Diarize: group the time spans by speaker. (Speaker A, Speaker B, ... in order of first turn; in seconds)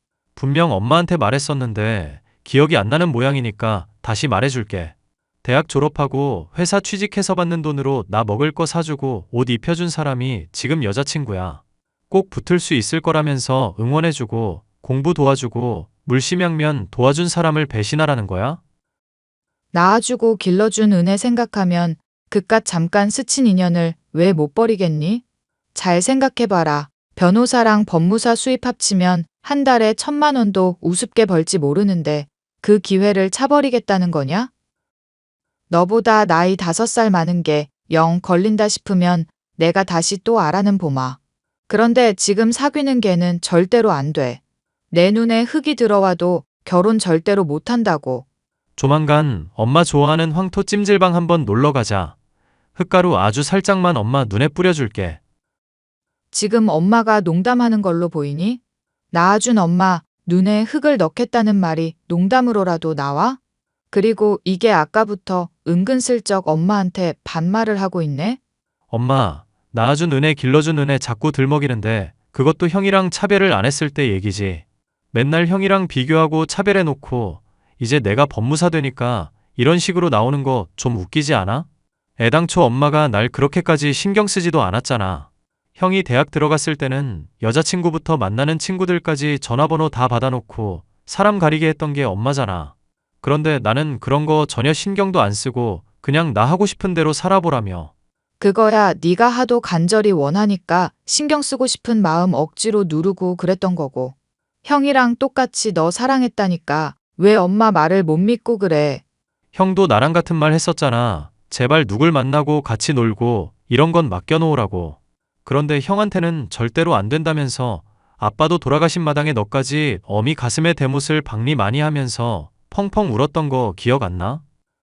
Speaker A: 0.3-18.6, 48.8-52.1, 52.8-55.2, 68.9-81.7, 82.2-97.9, 109.5-124.4
Speaker B: 19.7-25.2, 25.7-34.5, 35.7-41.2, 41.7-44.4, 44.9-48.2, 56.3-58.6, 59.1-63.4, 63.9-68.4, 98.4-104.1, 104.6-109.0